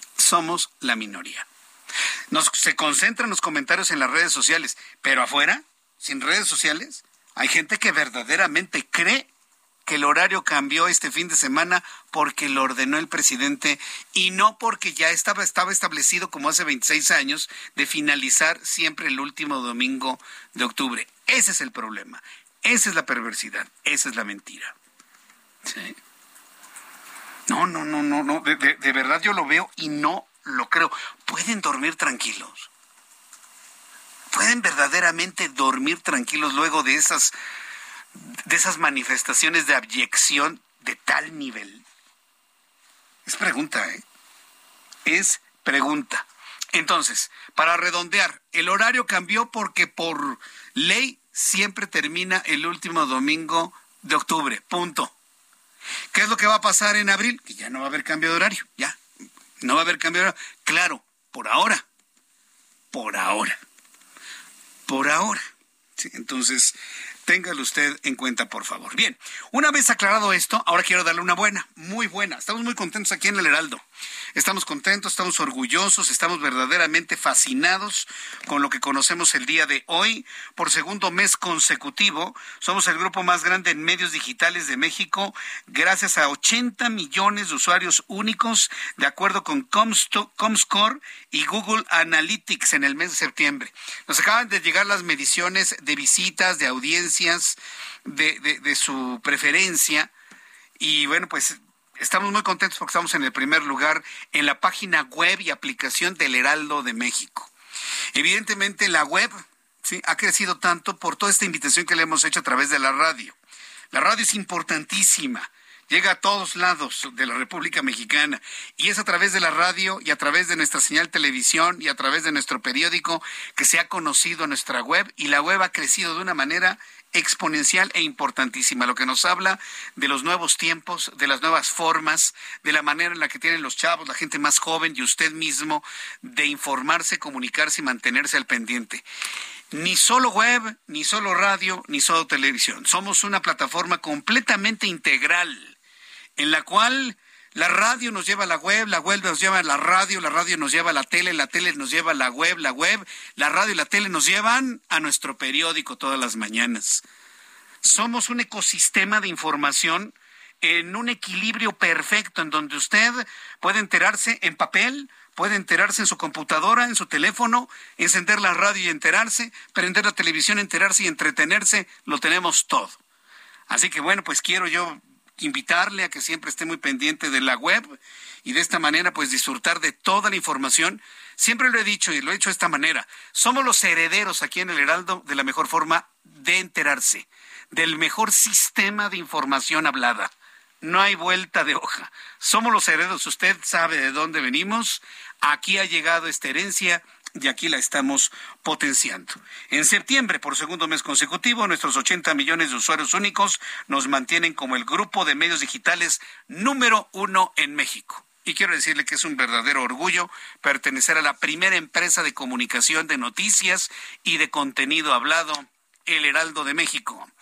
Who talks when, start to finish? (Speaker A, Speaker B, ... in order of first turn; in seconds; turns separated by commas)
Speaker A: 0.2-1.5, Speaker A: 2.3-9.3, Speaker A: 9.9-24.8, Speaker A: 25.6-26.0, Speaker A: 27.5-32.7, Speaker A: 34.3-37.4, Speaker A: 38.5-41.8, Speaker A: 43.3-44.0, Speaker A: 45.0-55.1, Speaker A: 56.1-59.0, Speaker A: 59.6-61.8, Speaker A: 62.9-63.6, Speaker A: 64.9-65.4, Speaker A: 66.0-73.8, Speaker A: 74.3-100.1, Speaker A: 100.8-107.5, Speaker A: 108.1-113.4, Speaker A: 113.9-139.1, Speaker A: 139.7-145.8, Speaker A: 146.4-157.0, Speaker A: 157.8-173.0, Speaker A: 173.7-217.3